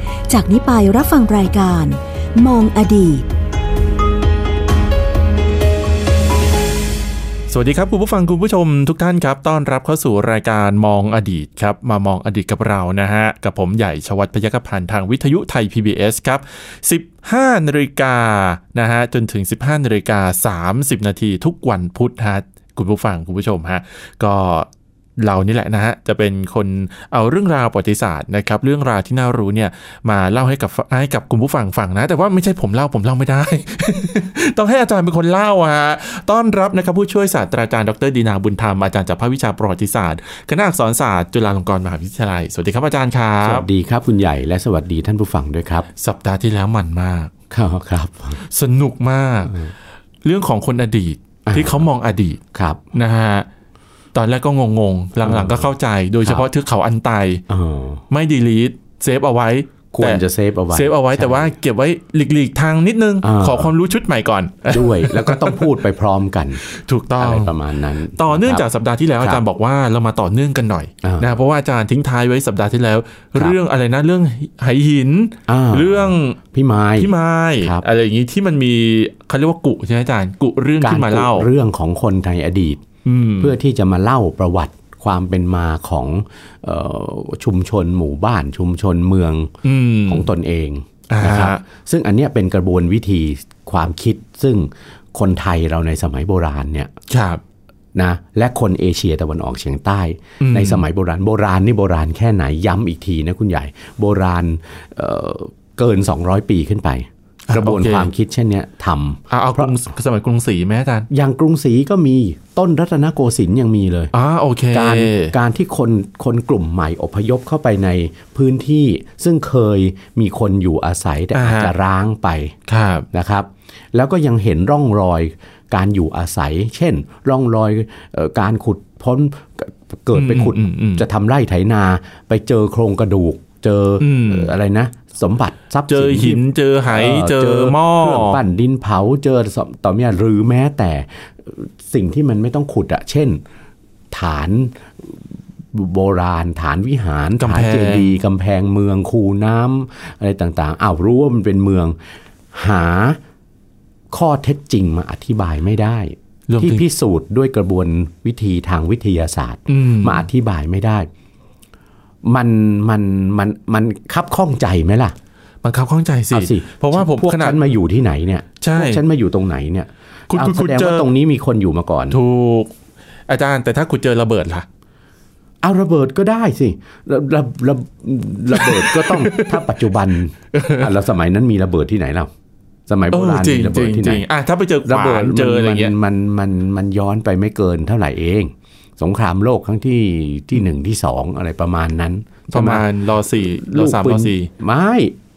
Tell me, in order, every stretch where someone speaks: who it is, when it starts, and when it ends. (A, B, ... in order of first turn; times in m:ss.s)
0:00.3-0:03.2 A
0:07.5-0:43.7 B
0:43.4-0:45.9 C
0:46.0-0:47.3 B
0:47.5-0:48.4 C
0:48.4-0:49.7 B
0:50.2-0:52.4 B
0:51.5-0:51.8 C
0:52.5-0:52.8 C
0:52.9-0:53.5 B
0:54.1-0:57.4 B
0:55.2-0:55.7 C
0:57.5-0:58.0 C
0:58.1-1:05.7 B
0:59.9-1:01.5 C
1:03.2-1:03.7 C
1:04.7-1:06.6 C
1:06.6-1:07.6 B
1:07.2-1:08.6 C
1:08.1-1:16.4 B
1:11.0-1:11.3 C
1:15.5-1:17.8 C
1:17.0-1:21.5 B
1:20.8-1:22.8 C
1:23.0-1:23.6 B
1:23.4-1:29.5 C
1:29.6-1:30.3 B
1:30.1-1:36.9 C
1:31.1-1:31.6 B
1:37.1-1:37.4 B
1:38.0-1:49.8 C
1:40.4-1:40.8 B
1:47.5-1:48.1 B
1:49.3-1:51.1 B
1:51.1-1:54.1 C
1:54.1-1:55.3 B
1:54.7-2:02.6 C
2:01.4-2:01.7 B
2:02.7-2:03.1 B
2:03.1-2:23.4 C
2:10.1-2:11.0 B
2:14.0-2:14.6 B
2:15.9-2:18.4 B
2:24.1-2:32.0 C
2:27.4-2:28.2 B
2:32.5-2:33.2 C
2:34.1-2:41.1 C
2:36.5-2:36.8 B
2:39.7-2:40.3 B
2:42.2-2:45.2 C
2:45.6-2:47.6 B
2:46.3-2:52.2 C
2:48.6-2:49.0 B
2:50.3-2:51.1 B
2:52.1-2:52.8 B
2:53.3-2:54.7 B
2:55.6-3:02.3 C
2:58.5-2:59.9 B
3:00.5-3:00.9 B
3:02.9-3:04.2 C
3:03.1-3:05.9 B
3:04.8-3:12.8 C
3:12.5-3:14.5 B
3:13.5-3:15.2 C